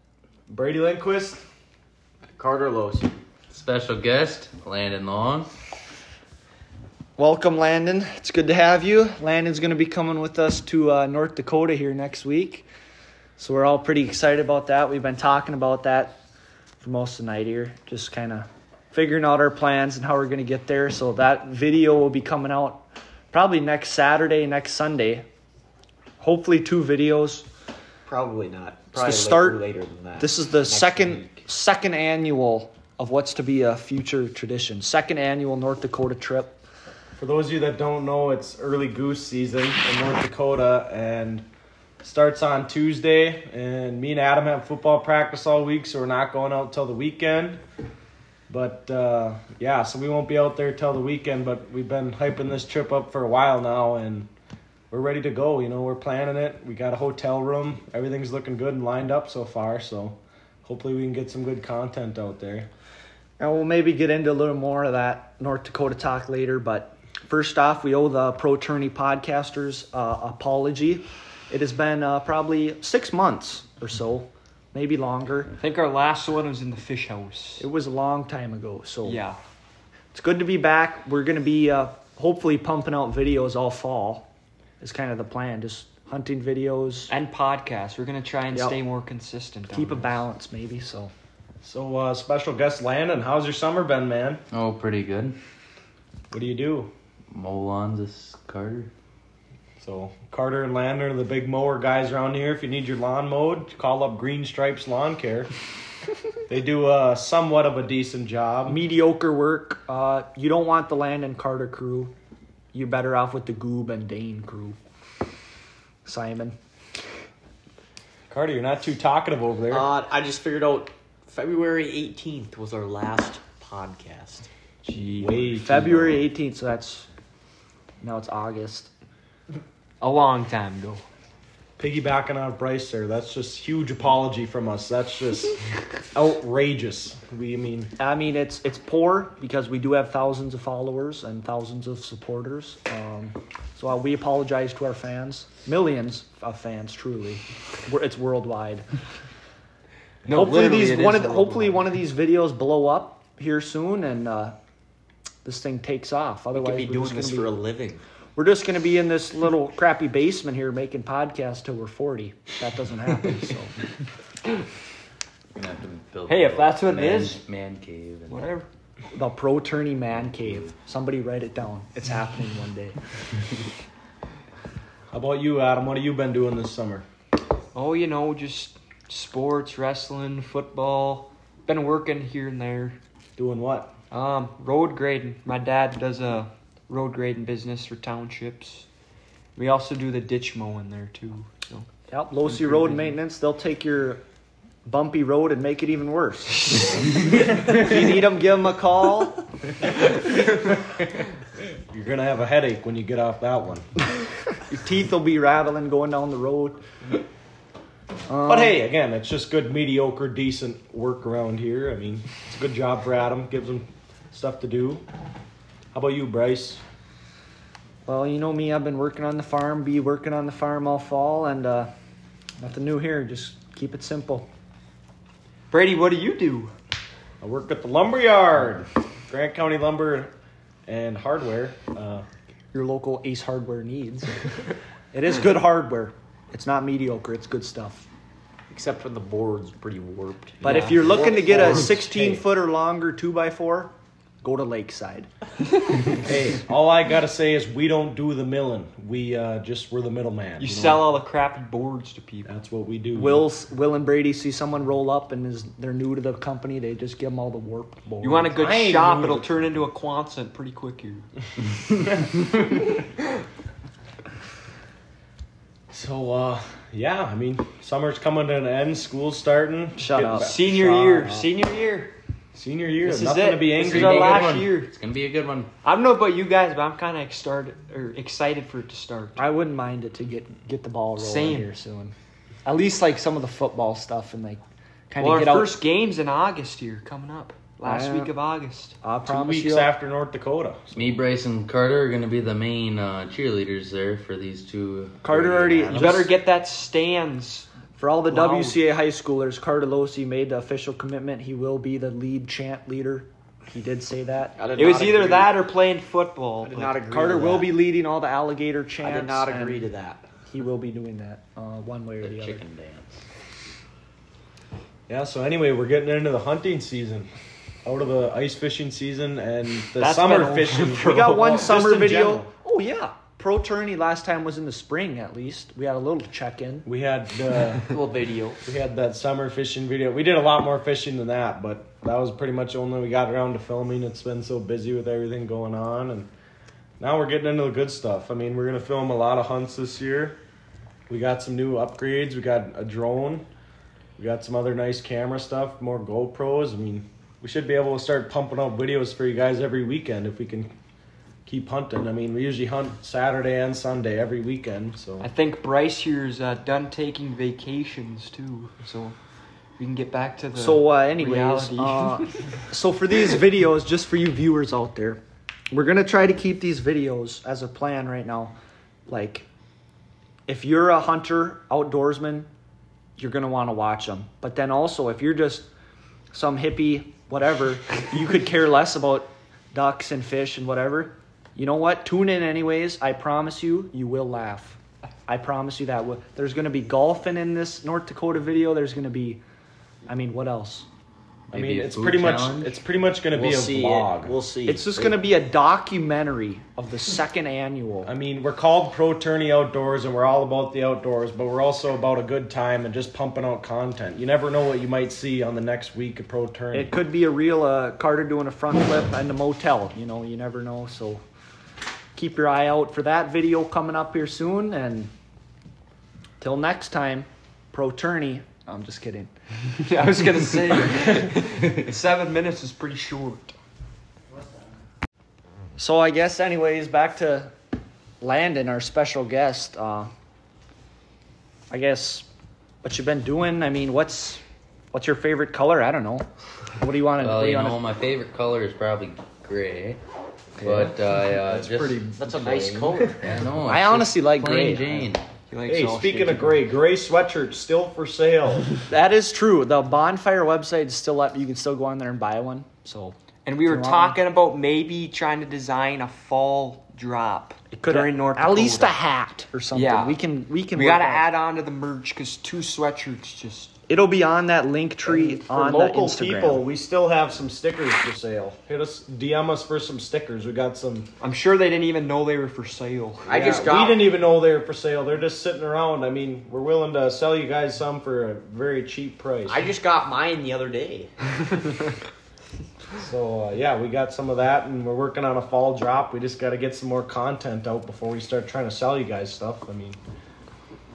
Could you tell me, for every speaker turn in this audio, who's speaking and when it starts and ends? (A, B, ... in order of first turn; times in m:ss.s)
0:00.5-0:01.4 A
0:02.4-0:03.2 B
0:03.5-0:05.5 C
0:07.2-0:12.7 D
0:13.4-0:16.2 D
0:16.8-0:25.2 D
0:26.2-0:27.5 D
0:28.0-0:31.4 B
0:29.0-0:29.6 D
0:30.2-0:36.6 D
0:37.2-0:41.5 A
0:42.0-0:47.6 A
0:48.5-0:54.3 A
0:54.9-1:02.7 A
1:03.4-1:15.5 D
1:15.6-1:17.6 E
1:17.6-1:19.2 D
1:19.0-1:19.4 E
1:20.1-1:24.3 D
1:24.8-1:27.1 D
1:27.1-1:30.2 E
1:28.5-1:28.8 D
1:29.7-1:31.1 D
1:31.6-1:34.4 A
1:34.5-1:35.4 C
1:36.3-1:36.9 A
1:37.3-1:38.9 C
1:39.8-1:45.5 A
1:46.5-1:48.8 A
1:48.7-1:52.2 D
1:52.7-1:54.8 D
1:56.0-1:56.6 D
1:58.3-1:59.9 A
1:59.7-2:04.5 B
2:04.9-2:05.4 E
2:05.2-2:06.3 A
2:05.6-2:07.1 D
2:08.0-2:08.9 D
2:10.0-2:11.0 E
2:11.8-2:17.9 A
2:18.0-2:28.9 D
2:30.3-2:31.8 E
2:30.3-2:34.6 D
2:35.4-2:37.5 D
2:36.5-2:38.0 B
2:38.4-2:43.8 D
2:45.6-2:48.5 C
2:46.3-2:47.4 E
2:48.3-2:48.7 E
2:49.1-2:53.0 D
2:50.1-2:50.7 C
2:55.1-2:57.1 A
2:57.7-3:03.0 E
3:03.4-3:03.9 A
3:04.1-3:08.9 E
3:09.6-3:11.9 E
3:12.1-3:14.2 D
3:12.6-3:13.0 E
3:14.8-3:19.4 D
3:21.9-3:23.9 A
3:24.7-3:26.8 D
3:28.3-3:28.8 D
3:28.4-3:35.0 A
3:35.9-3:36.8 A
3:38.1-3:41.9 D
3:42.6-3:44.5 D
3:45.7-3:46.7 E
3:47.4-3:50.3 A
3:50.9-3:52.2 A
3:52.7-3:54.4 D
3:55.1-3:58.1 D
3:58.7-4:01.9 B
4:00.6-4:01.2 E
4:00.6-4:05.3 D
4:01.0-4:02.4 A
4:06.1-4:11.1 A
4:10.6-4:12.5 E
4:12.4-4:13.5 A
4:13.1-4:18.8 D
4:18.2-4:21.3 E
4:18.6-4:19.4 A
4:25.9-4:31.0 A
4:30.0-4:31.5 D
4:30.4-4:32.2 E
4:32.6-4:34.7 A
4:33.0-4:34.9 E
4:33.8-4:35.7 C
4:35.8-4:39.4 E
4:39.4-4:45.8 D
4:41.2-4:41.7 E
4:45.2-4:49.0 E
4:47.8-4:48.3 D
4:49.0-4:49.9 D
4:49.3-4:51.2 A
4:50.9-4:56.2 C
4:55.2-4:56.3 D
4:55.9-4:57.7 E
4:58.0-5:04.6 D
4:58.3-4:58.8 E
5:04.6-5:05.6 B
5:04.8-5:07.0 E
5:06.6-5:07.8 B
5:07.1-5:09.9 D
5:09.0-5:10.3 B
5:10.5-5:12.6 D
5:12.2-5:13.2 C
5:15.1-5:17.3 A
5:17.8-5:22.5 A
5:20.0-5:22.0 E
5:21.0-5:26.9 D
5:26.8-5:27.9 A
5:27.8-5:28.6 B
5:28.6-5:36.3 A
5:37.0-5:40.4 A
5:41.1-5:43.5 A
5:44.2-5:50.7 A
5:51.5-5:55.3 A
5:55.2-5:59.2 E
5:59.8-6:02.6 E
6:00.6-6:08.6 D
6:09.1-6:09.5 D
6:10.5-6:12.5 D
6:13.2-6:15.7 D
6:16.3-6:29.4 D
6:30.1-6:30.9 D
6:31.5-6:32.8 C
6:31.5-6:34.3 A
6:33.3-6:35.2 B
6:34.7-6:38.1 D
6:38.0-6:47.0 A
6:46.7-6:51.2 D
6:52.2-6:55.1 D
6:56.4-6:59.3 D
6:59.8-7:03.6 E
7:05.8-7:07.5 D
7:08.2-7:10.1 D
7:11.7-7:12.3 D
7:12.8-7:17.8 D
7:17.2-7:20.0 C
7:20.6-7:22.1 C
7:20.6-7:23.1 A
7:22.1-7:23.2 B
7:23.2-7:25.2 C
7:23.6-7:25.1 D
7:25.5-7:26.6 E
7:25.7-7:28.7 A
7:28.9-7:34.2 D
7:33.4-7:39.0 E
7:37.7-7:41.3 D
7:39.7-7:40.2 E
7:40.7-7:43.8 E
7:43.9-7:46.6 D
7:45.0-7:51.1 A
7:51.2-7:53.4 E
7:53.3-7:54.1 B
7:53.3-7:59.7 A
7:59.5-8:01.1 B
8:03.0-8:10.0 A